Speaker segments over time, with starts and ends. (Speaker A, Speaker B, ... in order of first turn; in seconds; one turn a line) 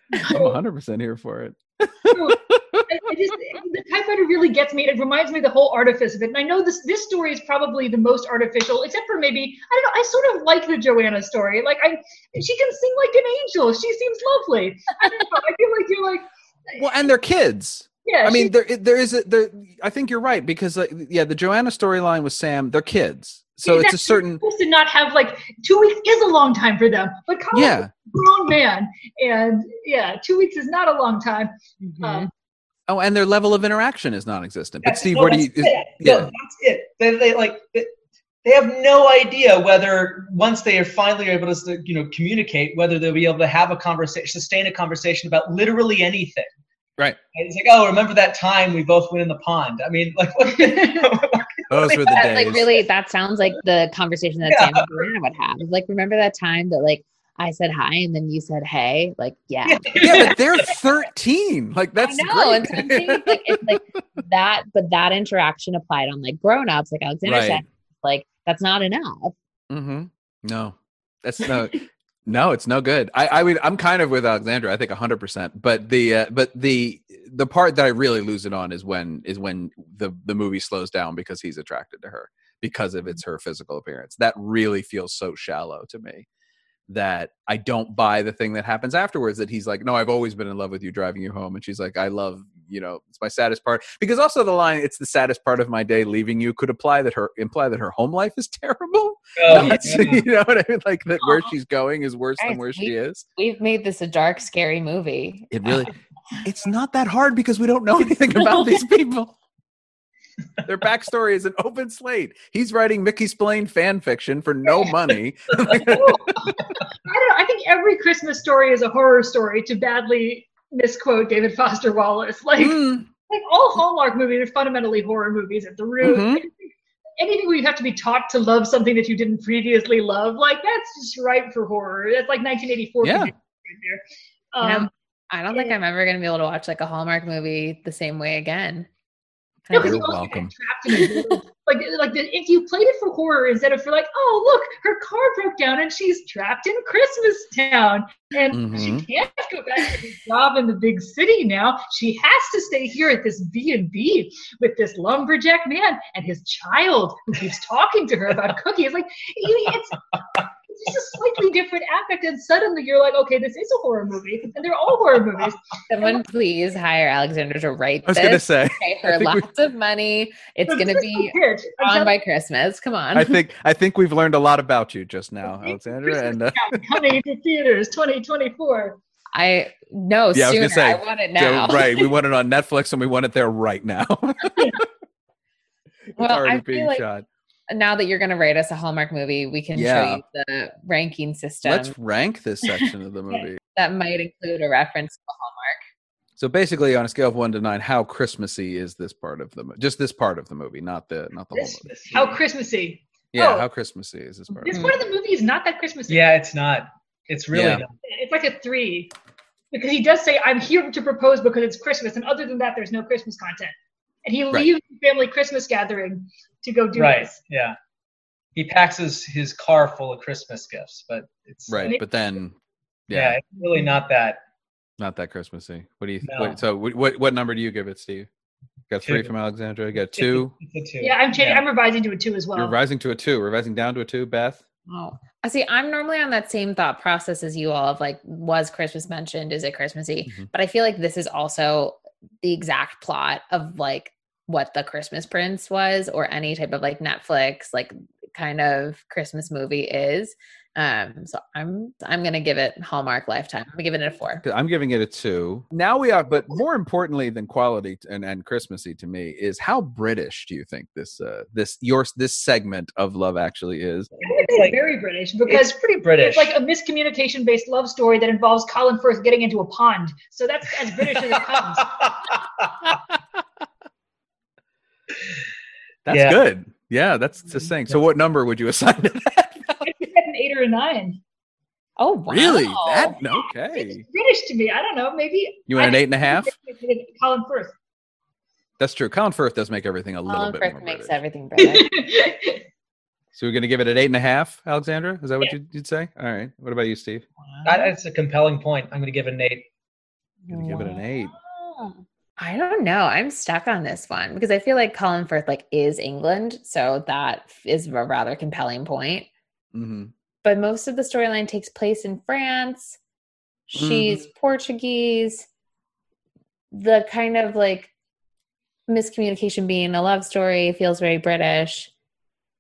Speaker A: 0.1-0.6
Speaker B: 0.2-2.9
Speaker A: 2.1-17.1
Speaker B: 16.8-24.4
Speaker A: 18.1-18.5
Speaker A: 23.6-32.3
Speaker B: 27.5-27.9
Speaker C: 31.8-32.3
Speaker B: 32.9-36.3
Speaker D: 34.8-37.9
Speaker D: 38.4-46.5
Speaker D: 47.4-52.8
Speaker A: 50.5-51.1
Speaker B: 51.7-52.6
Speaker C: 52.1-60.0
Speaker D: 54.5-55.0
Speaker D: 59.6-60.7
Speaker B: 60.0-63.8
Speaker C: 62.0-69.3
Speaker B: 67.3-67.6
Speaker B: 69.7-86.3
Speaker B: 86.9-103.2
Speaker D: 99.4-100.2
Speaker C: 102.4-105.8
Speaker B: 105.5-109.3
Speaker C: 108.4-108.7
Speaker B: 110.7-116.6
Speaker A: 115.9-116.3
Speaker A: 117.0-126.7
Speaker B: 122.6-123.1
Speaker B: 126.0-126.5
Speaker A: 127.2-134.0
Speaker B: 133.0-133.3
Speaker A: 134.5-134.9
Speaker C: 134.6-138.9
Speaker B: 139.7-140.5
Speaker C: 139.7-140.0
Speaker A: 139.7-160.0
Speaker B: 148.5-149.1
Speaker A: 160.7-166.2
Speaker C: 165.9-173.4
Speaker B: 168.1-169.5
Speaker A: 170.7-172.1
Speaker B: 173.1-176.8
Speaker A: 175.5-179.0
Speaker C: 179.3-181.9
Speaker B: 180.3-184.8
Speaker B: 186.1-187.3
Speaker C: 186.2-187.0
Speaker C: 187.7-191.9
Speaker B: 189.8-190.2
Speaker B: 191.6-193.6
Speaker C: 193.8-195.8
Speaker B: 196.4-201.8
Speaker D: 201.5-202.4
Speaker A: 202.1-203.7
Speaker B: 203.3-204.9
Speaker A: 204.6-206.3
Speaker C: 204.7-205.0
Speaker D: 206.1-207.9
Speaker B: 207.5-207.8
Speaker A: 208.1-209.1
Speaker A: 209.7-217.3
Speaker D: 216.9-217.8
Speaker D: 218.6-222.0
Speaker B: 221.7-222.6
Speaker B: 223.1-223.4
Speaker D: 223.1-224.4
Speaker B: 225.0-228.3
Speaker D: 226.3-226.6
Speaker B: 228.9-230.5
Speaker D: 229.1-229.3
Speaker D: 230.2-231.6
Speaker A: 231.0-232.8
Speaker B: 232.6-234.6
Speaker C: 234.9-254.4
Speaker B: 254.4-264.1
Speaker D: 264.2-264.8
Speaker A: 264.2-271.9
Speaker D: 265.5-266.5
Speaker D: 271.8-272.7
Speaker B: 276.1-279.8
Speaker D: 276.1-276.4
Speaker A: 279.8-281.2
Speaker C: 282.0-283.2
Speaker B: 282.3-284.1
Speaker A: 283.7-287.8
Speaker B: 285.7-286.5
Speaker B: 288.8-291.2
Speaker C: 290.3-291.9
Speaker A: 291.6-292.6
Speaker B: 293.3-297.2
Speaker C: 297.5-297.7
Speaker D: 297.6-299.7
Speaker C: 300.5-309.3
Speaker B: 300.5-301.4
Speaker B: 309.7-310.1
Speaker C: 310.4-313.0
Speaker C: 313.7-315.5
Speaker B: 313.8-314.2
Speaker C: 316.7-317.9
Speaker C: 318.9-321.9